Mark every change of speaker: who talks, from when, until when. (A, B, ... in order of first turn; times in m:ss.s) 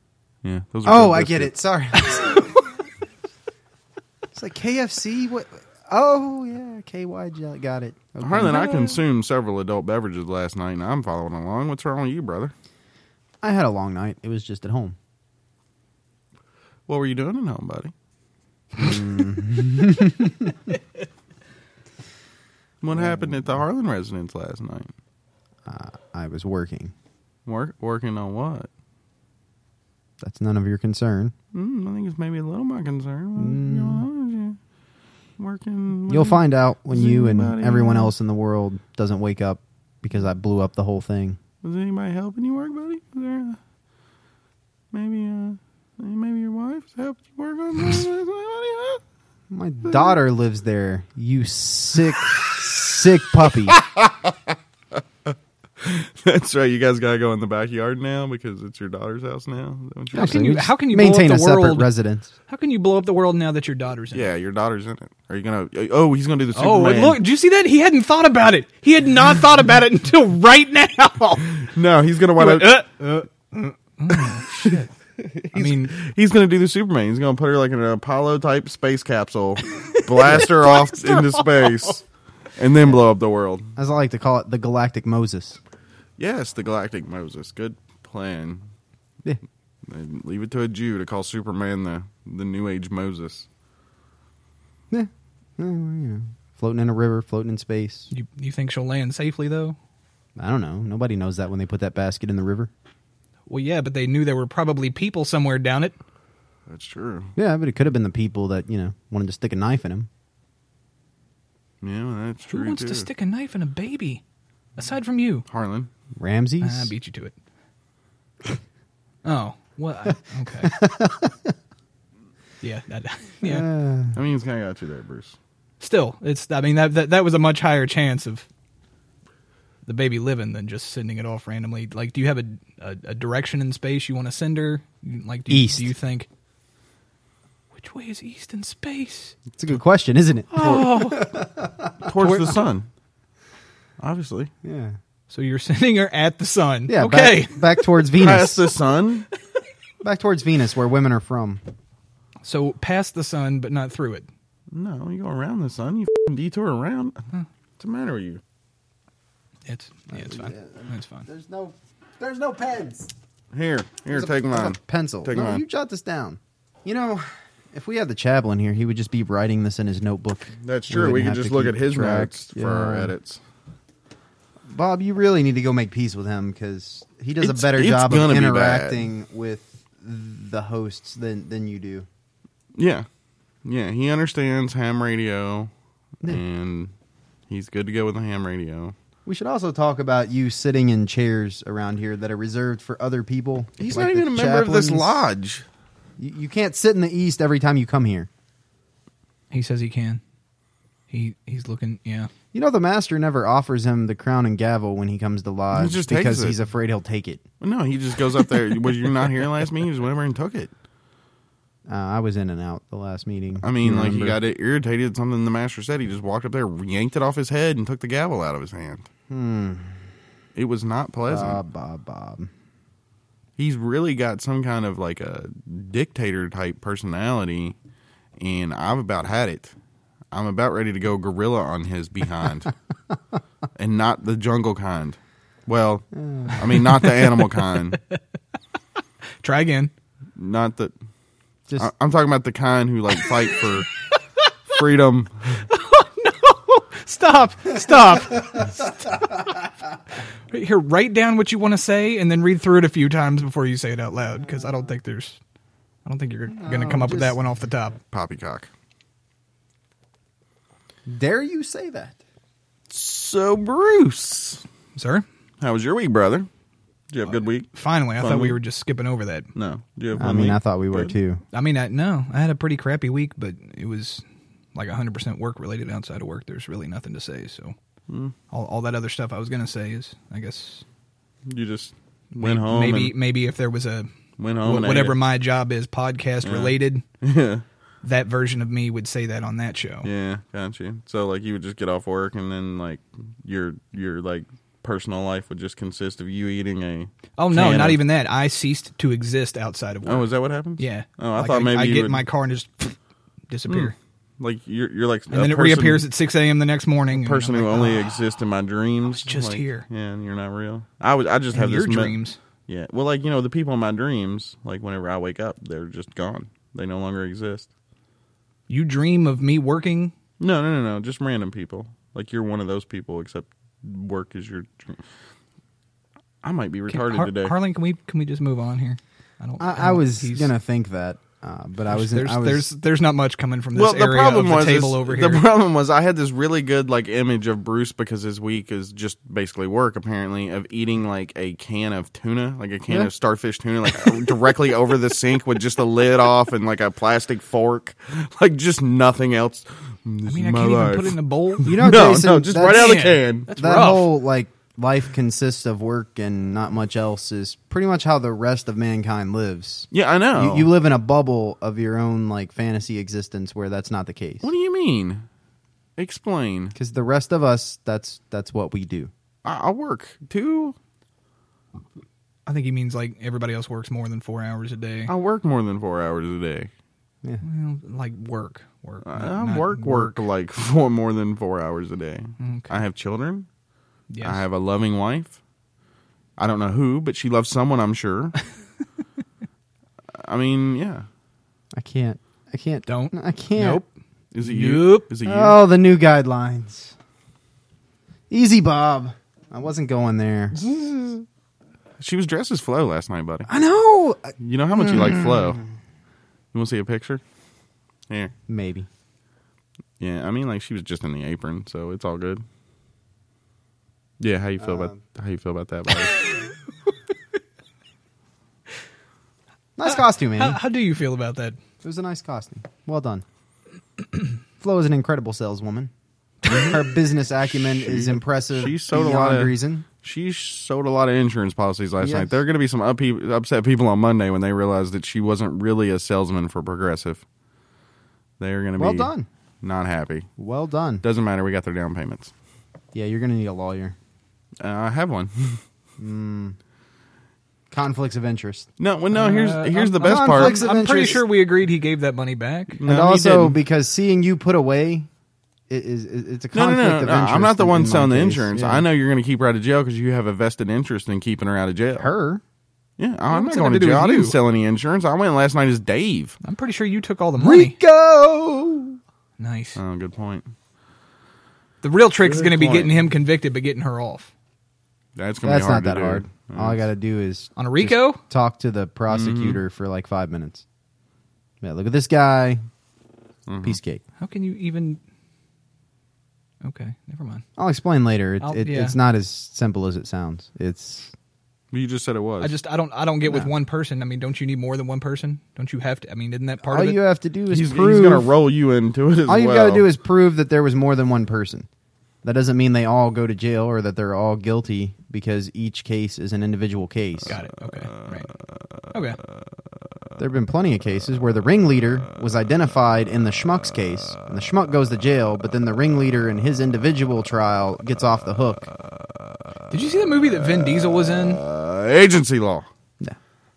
0:00.4-0:01.5 A
0:00.8-0:02.5 B
0:04.3-0:08.9 B
0:08.2-0:12.5 A
0:08.4-0:08.9 C
0:13.4-0:15.0 B
0:16.9-0:17.9 A
0:18.8-0:20.7 B
0:22.8-0:24.9 A
0:22.9-0:23.5 B
0:25.6-0:26.9 B
0:27.4-0:28.7 A
0:30.2-0:31.3 B
0:31.5-0:34.6 A
0:33.4-0:34.0 B
0:35.4-0:38.1 A
0:36.1-0:41.4 B
0:41.6-0:43.6 A
0:44.9-0:49.0 A
0:49.5-0:53.8 B
0:53.7-0:54.6 A
0:55.2-1:00.4 A
1:00.1-1:02.3 B
1:00.1-1:01.9 C
1:02.5-1:04.3 C
1:04.1-1:07.2 A
1:06.5-1:11.6 C
1:11.6-1:12.8 A
1:12.4-1:14.9 C
1:14.2-1:22.0 A
1:15.5-1:16.0 C
1:19.7-1:21.9 C
1:22.6-1:23.7 A
1:23.8-1:25.6 B
1:26.2-1:28.6 A
1:29.9-1:33.5 A
1:34.9-1:38.1 B
1:38.1-1:39.8 C
1:40.4-1:42.7 B
1:43.5-1:46.0 C
1:46.7-1:47.3 A
1:47.4-1:50.1 B
1:51.8-1:53.1 A
1:52.5-1:54.2 C
1:54.8-1:55.4 C
1:55.5-1:55.9 A
1:56.2-1:56.9 B
1:56.6-1:57.3 C
1:59.2-2:00.8 C
2:00.6-2:01.5 B
2:02.6-2:03.6 C
2:03.4-2:04.2 B
2:04.1-2:05.4 A
2:05.8-2:08.4 C
2:09.8-2:16.3 C
2:15.5-2:15.9 B
2:17.7-2:19.3 C
2:19.6-2:22.5 B
2:20.5-2:21.3 C
2:22.0-2:22.9 A
2:24.0-2:24.5 A
2:24.6-2:25.0 B
2:25.3-2:27.8 C
2:26.9-2:28.7 B
2:28.2-2:29.2 A
2:30.0-2:31.6 B
2:32.4-2:34.3 C
2:34.7-2:37.2 A
2:37.8-2:38.4 A
2:39.6-2:41.3 C
2:40.1-2:43.1 B
2:43.5-2:45.6 A
2:44.1-2:53.1 B
2:50.6-2:53.4 A
2:54.6-3:02.1 B
2:57.4-2:59.0 A
3:02.8-3:03.0 A
3:03.6-3:05.7 A
3:06.2-3:06.9 A
3:07.5-3:08.9 A
3:09.2-3:15.2 B
3:13.8-3:15.6 A
3:16.2-3:18.3 B
3:19.5-3:20.2 C
3:21.1-3:22.3 C
3:22.5-3:27.4 B
3:25.7-3:26.6 A
3:27.6-3:30.7 A
3:31.9-3:34.4 B
3:33.6-3:39.1 A
3:39.3-3:40.1 B
3:40.5-3:41.6 A
3:41.3-3:42.5 B
3:43.6-3:47.8 A
3:48.4-3:49.7 A
3:50.3-3:52.7 A
3:53.8-3:58.0 A
3:56.2-3:56.6 B
3:59.4-3:59.9 C
4:00.4-4:00.9 A
4:01.8-4:03.9 A
4:04.7-4:05.6 A
4:05.7-4:09.1 C
4:10.5-4:15.4 C
4:14.4-4:14.9 B
4:16.0-4:18.0 C
4:16.5-4:17.3 B
4:18.1-4:18.7 A
4:21.1-4:22.2 B
4:22.9-4:24.6 A
4:25.0-4:25.2 C
4:25.6-4:26.5 A
4:27.1-4:28.6 A
4:27.2-4:29.5 C
4:29.5-4:31.1 A
4:30.1-4:31.4 B
4:31.5-4:34.2 C
4:34.7-4:37.7 C
4:38.1-4:38.3 A
4:38.5-4:40.8 C
4:41.5-4:43.1 A
4:42.3-4:44.1 C
4:44.4-4:45.2 A
4:44.6-4:47.0 C
4:46.4-4:47.6 A
4:48.0-4:50.1 C
4:50.0-4:58.0 A
4:57.4-5:03.0 C
5:00.0-5:02.2 A
5:03.5-5:03.9 C
5:03.7-5:06.0 A
5:05.3-5:08.1 C
5:07.1-5:12.2 A
5:09.1-5:09.8 C
5:11.5-5:12.4 C
5:12.7-5:17.7 A
5:18.7-5:20.1 C
5:20.4-5:25.0 A
5:26.4-5:27.5 A
5:26.9-5:30.5 C
5:29.6-5:32.7 B
5:31.9-5:35.4 C
5:33.7-5:53.5 A
5:50.2-5:52.0 C
5:51.6-6:04.5 B
5:52.6-5:54.1 C
5:59.9-6:00.7 A
6:04.4-6:05.2 A
6:06.0-6:06.7 A
6:06.7-6:09.1 B
6:09.4-6:10.8 A
6:12.4-6:15.1 C
6:15.1-6:16.7 A
6:17.4-6:20.2 C
6:19.0-6:23.5 A
6:22.4-6:22.7 C
6:24.1-6:24.4 C
6:24.2-6:25.4 A
6:26.4-6:28.4 A
6:30.2-6:31.0 A
6:31.7-6:33.8 B
6:32.9-6:33.9 C
6:34.3-6:35.6 A
6:34.4-6:35.1 C
6:35.2-6:36.9 B
6:38.3-6:40.6 B
6:40.7-6:41.1 A
6:42.0-6:43.5 A
6:43.5-6:45.6 B
6:44.4-6:45.6 A
6:46.5-6:47.2 A
6:48.5-6:48.9 B
6:50.0-6:52.4 A
6:54.2-6:56.3 A
6:54.6-6:55.0 B
6:59.8-7:00.6 B
6:59.8-7:01.6 C
7:01.8-7:03.2 B
7:04.6-7:05.9 B
7:06.5-7:09.8 B
7:07.5-7:17.2 A
7:12.0-7:12.4 B
7:18.4-7:19.1 A
7:18.8-7:19.3 B
7:19.6-7:20.3 A
7:20.4-7:21.0 B
7:21.0-7:22.3 A
7:22.9-7:24.0 B
7:24.6-7:25.6 A
7:26.0-7:26.6 B
7:27.7-7:28.7 B
7:28.8-7:30.7 A
7:29.1-7:32.8 C
7:30.0-7:31.2 B
7:32.8-7:33.6 A
7:32.8-7:35.1 B
7:35.7-7:38.8 B
7:36.5-7:42.1 A
7:42.0-7:42.4 B
7:43.0-7:46.4 A
7:43.3-7:44.4 C
7:46.4-7:47.8 C
7:47.4-7:49.0 B
7:49.4-7:49.8 C
7:49.8-7:50.5 A
7:51.8-7:54.3 C
7:52.2-7:53.0 A
7:55.2-7:56.8 A
7:55.4-8:00.6 B
7:57.6-7:58.2 C
7:59.1-7:59.6 A
8:01.6-8:02.6 B
8:03.5-8:03.8 A
8:03.6-8:04.0 B
8:04.2-8:05.0 C
8:06.6-8:07.4 C
8:07.6-8:11.1 B
8:08.4-8:09.0 C
8:11.7-8:12.5 A
8:12.4-8:17.0 C
8:13.2-8:13.5 B
8:16.6-8:18.3 B
8:17.5-8:19.9 A
8:19.3-8:21.7 B
8:22.2-8:27.4 B
8:27.3-8:28.3 C
8:28.9-8:29.2 C
8:30.2-8:38.7 B
8:39.7-8:41.4 C
8:41.1-8:42.7 A